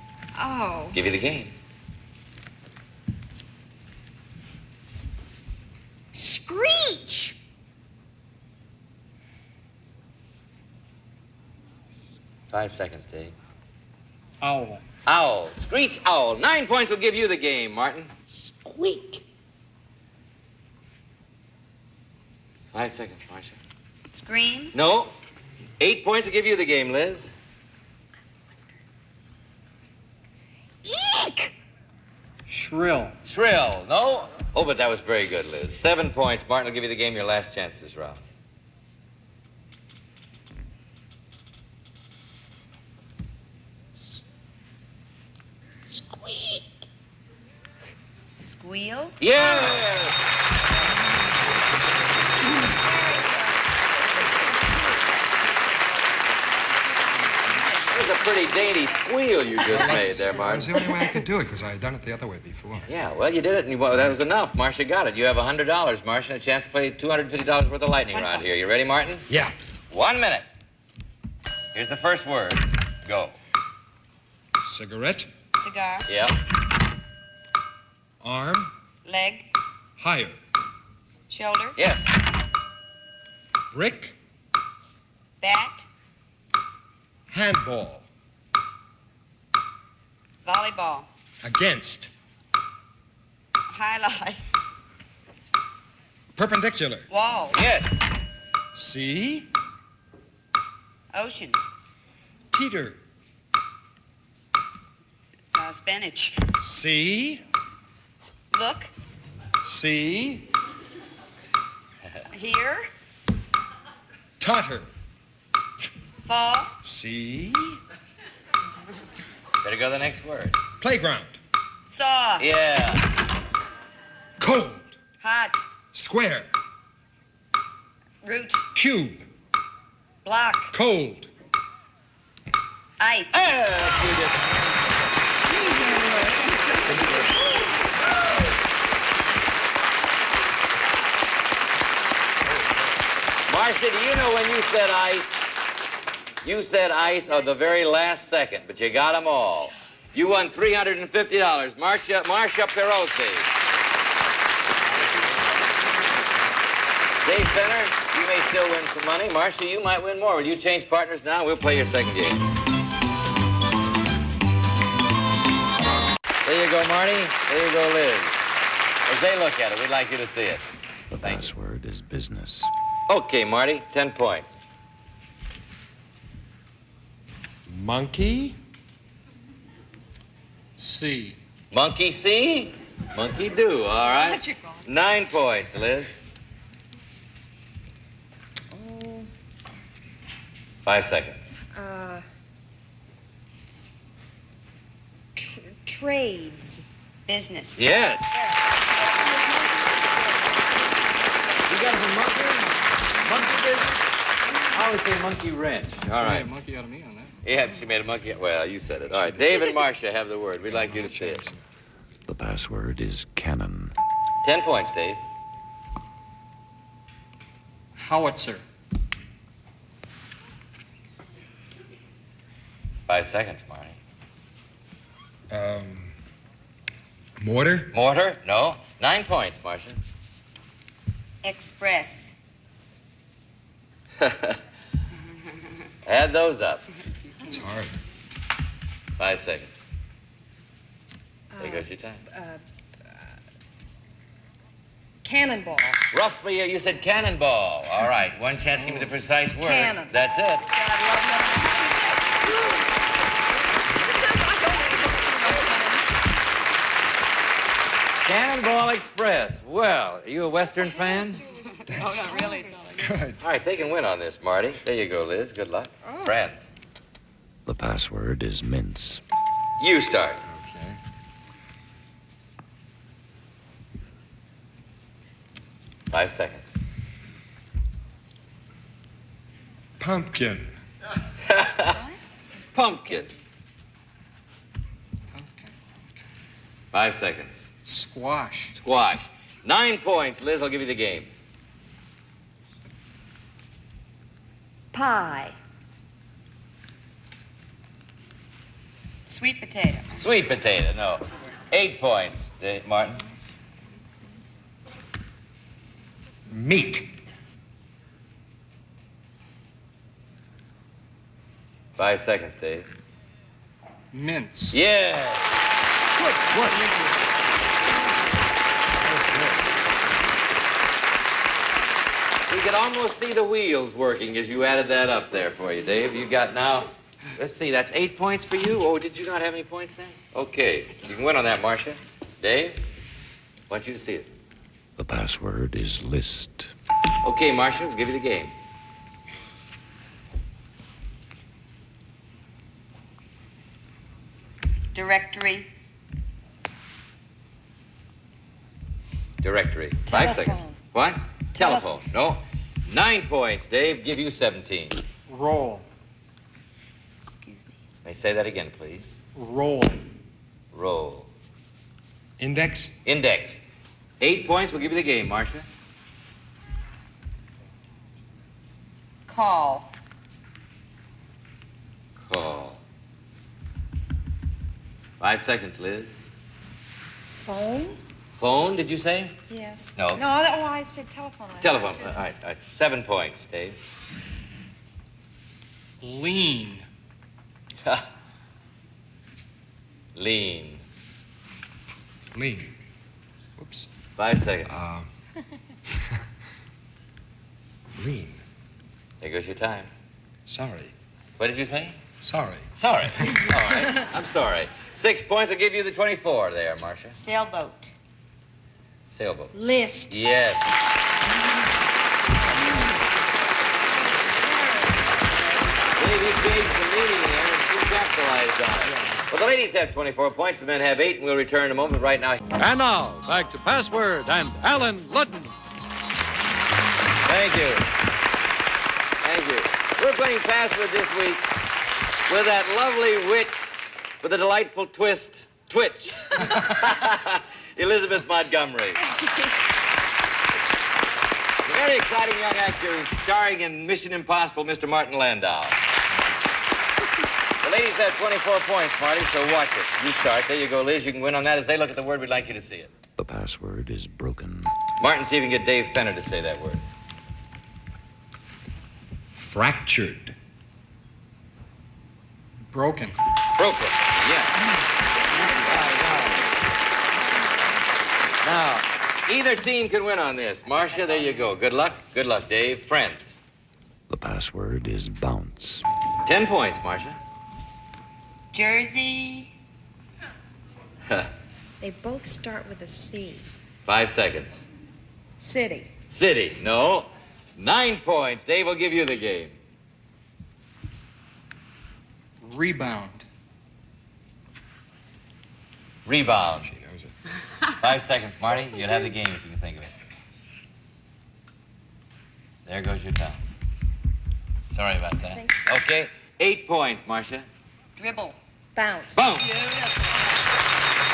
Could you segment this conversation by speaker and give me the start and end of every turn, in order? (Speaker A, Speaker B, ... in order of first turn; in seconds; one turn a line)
Speaker A: 0.3-1.0
Speaker B: 0.9-1.5
Speaker A: 6.1-7.4
Speaker B: 12.5-13.3
Speaker C: 14.4-14.8
Speaker B: 15.1-18.1
Speaker B: 22.7-23.6
Speaker D: 24.1-24.8
Speaker B: 24.7-25.1
Speaker B: 25.8-27.3
Speaker A: 30.8-31.5
Speaker C: 32.5-33.1
Speaker B: 33.2-38.2
Speaker E: 46.1-46.4
Speaker D: 48.3-49.9
Speaker B: 49.2-50.1
Speaker B: 57.9-60.7
Speaker E: 59.7-62.9
Speaker B: 62.9-69.2
Speaker D: 68.1-68.5
Speaker E: 69.3-69.5
Speaker B: 69.9-70.5
Speaker B: 71.7-73.3
Speaker E: 74.6-75.3
Speaker D: 75.5-76.1
Speaker B: 76.1-76.4
Speaker E: 78.2-78.7
Speaker D: 79.0-79.5
Speaker E: 80.0-80.4
Speaker D: 81.3-81.8
Speaker B: 81.8-82.1
Speaker E: 83.7-84.2
Speaker D: 85.4-85.9
Speaker E: 87.3-88.0
Speaker D: 90.4-91.1
Speaker E: 91.4-92.1
Speaker D: 93.7-94.4
Speaker E: 96.4-97.1
Speaker D: 97.1-97.6
Speaker B: 97.5-98.0
Speaker E: 98.7-99.5
Speaker D: 101.1-101.6
Speaker E: 102.5-103.0
Speaker D: 105.5-106.4
Speaker E: 106.6-107.4
Speaker D: 108.5-108.9
Speaker E: 109.6-110.5
Speaker D: 112.3-112.9
Speaker E: 114.4-114.9
Speaker D: 116.2-116.7
Speaker E: 116.8-117.8
Speaker B: 119.6-120.6
Speaker E: 120.8-121.4
Speaker D: 121.8-122.5
Speaker B: 122.4-123.0
Speaker E: 124.4-124.9
Speaker D: 125.2-125.7
Speaker E: 125.9-126.5
Speaker D: 128.2-128.7
Speaker E: 128.7-129.3
Speaker D: 130.2-130.7
Speaker E: 130.7-131.3
Speaker D: 133.0-133.6
Speaker B: 133.3-134.5
Speaker A: 135.5-137.1
Speaker E: 137.0-137.5
Speaker E: 142.4-142.9
Speaker B: 143.5-145.5
Speaker B: 146.4-153.5
Speaker B: 155.0-155.3
Speaker B: 157.2-162.4
Speaker B: 166.4-168.3
Speaker B: 169.1-170.7
Speaker F: 171.1-172.7
Speaker B: 171.2-171.5
Speaker B: 173.1-174.6
Speaker E: 177.7-178.6
Speaker C: 180.8-181.4
Speaker B: 181.7-186.1
Speaker A: 188.7-189.3
Speaker B: 190.8-191.6
Speaker A: 191.7-192.2
Speaker A: 195.3-196.8
Speaker D: 197.3-197.9
Speaker B: 197.8-198.3
Speaker A: 198.3-200.6
Speaker B: 201.7-204.0
Speaker B: 204.7-206.5
Speaker C: 206.1-207.3
Speaker B: 207.4-211.5
Speaker E: 209.1-209.7
Speaker E: 210.7-211.6
Speaker F: 212.3-213.9
Speaker B: 214.4-215.2
Speaker C: 218.0-218.6
Speaker B: 223.1-223.9
Speaker E: 225.5-226.1
Speaker E: 227.4-227.9
Speaker B: 227.9-230.0
Speaker D: 231.4-232.3
Speaker B: 234.2-234.6
Speaker B: 236.0-236.8
Speaker E: 237.5-237.9
Speaker B: 239.2-239.8
Speaker A: 241.5-242.6
Speaker B: 241.6-242.2
Speaker A: 245.2-246.0
Speaker B: 246.1-250.7
Speaker A: 249.6-250.2
Speaker D: 250.7-252.3
Speaker D: 254.7-256.0
Speaker B: 258.2-261.4
Speaker D: 261.5-263.1
Speaker E: 261.9-262.4
Speaker E: 263.0-263.4
Speaker B: 263.4-266.6
Speaker F: 267.6-269.2
Speaker B: 269.8-270.4
Speaker E: 270.4-271.0
Speaker B: 276.1-276.7
Speaker E: 280.0-280.7
Speaker B: 281.5-282.0
Speaker D: 281.9-282.3
Speaker B: 282.7-283.3
Speaker C: 285.3-285.7
Speaker B: 286.9-287.7
Speaker C: 287.8-288.7
Speaker B: 288.7-291.3
Speaker A: 294.9-295.6
Speaker D: 299.3-300.1
Speaker B: 300.1-303.2
Speaker E: 306.5-307.1
Speaker B: 312.0-312.9
Speaker C: 314.1-314.8
Speaker B: 314.7-315.5
Speaker C: 316.2-317.3
Speaker E: 319.0-319.6
Speaker B: 322.5-332.8
Speaker B: 333.7-334.3
Speaker F: 335.0-336.7
Speaker B: 337.2-338.5
Speaker D: 344.9-345.7
Speaker B: 349.4-355.0
Speaker A: 350.1-350.8
Speaker A: 351.6-351.9
Speaker C: 355.3-355.9
Speaker D: 357.3-357.7
Speaker B: 358.0-359.1
Speaker C: 359.4-360.0
Speaker B: 360.7-361.3
Speaker E: 362.4-362.9
Speaker B: 363.0-363.6
Speaker B: 364.2-365.6
Speaker D: 369.3-369.9
Speaker B: 372.2-372.8
Speaker B: 375.2-376.2
Speaker A: 377.3-378.0
Speaker B: 378.4-379.4
Speaker A: 379.5-382.2
Speaker B: 380.0-380.2
Speaker B: 381.6-383.8
Speaker C: 386.0-386.9
Speaker B: 390.1-390.8
Speaker E: 392.3-392.7
Speaker E: 393.6-393.9
Speaker B: 394.2-394.8
Speaker E: 394.6-395.1
Speaker E: 398.0-398.4
Speaker B: 399.2-399.9
Speaker E: 400.5-400.9
Speaker B: 401.4-402.0
Speaker E: 402.2-403.4
Speaker B: 402.7-407.1
Speaker D: 407.1-407.9
Speaker B: 409.1-409.5
Speaker A: 409.5-410.2
Speaker B: 410.1-410.8
Speaker A: 414.2-415.4
Speaker B: 416.0-422.4
Speaker G: 422.6-425.5
Speaker B: 427.2-427.9
Speaker B: 429.2-431.4
Speaker B: 432.3-439.0
Speaker B: 441.6-445.8
Speaker B: 447.6-452.9
Speaker F: 453.2-454.7
Speaker B: 455.0-456.8
Speaker E: 459.3-460.4
Speaker C: 462.7-463.1
Speaker B: 463.6-464.5
Speaker B: 465.5-466.5
Speaker B: 468.4-473.4
Speaker D: 471.1-471.3
Speaker F: 474.1-475.8
Speaker B: 476.2-477.2
Speaker D: 478.5-479.5
Speaker A: 481.8-483.5
Speaker B: 483.9-484.6
Speaker A: 485.4-485.9
Speaker B: 486.1-489.5
Speaker C: 492.4-493.2
Speaker B: 496.1-496.7
Speaker E: 496.5-497.1
Speaker B: 497.8-499.9
Speaker B: 502.6-503.4
Speaker B: 504.7-507.4
Speaker A: 505.3-505.7
Speaker D: 508.0-508.4
Speaker A: 508.7-509.2
Speaker B: 509.1-509.5
Speaker D: 509.3-510.4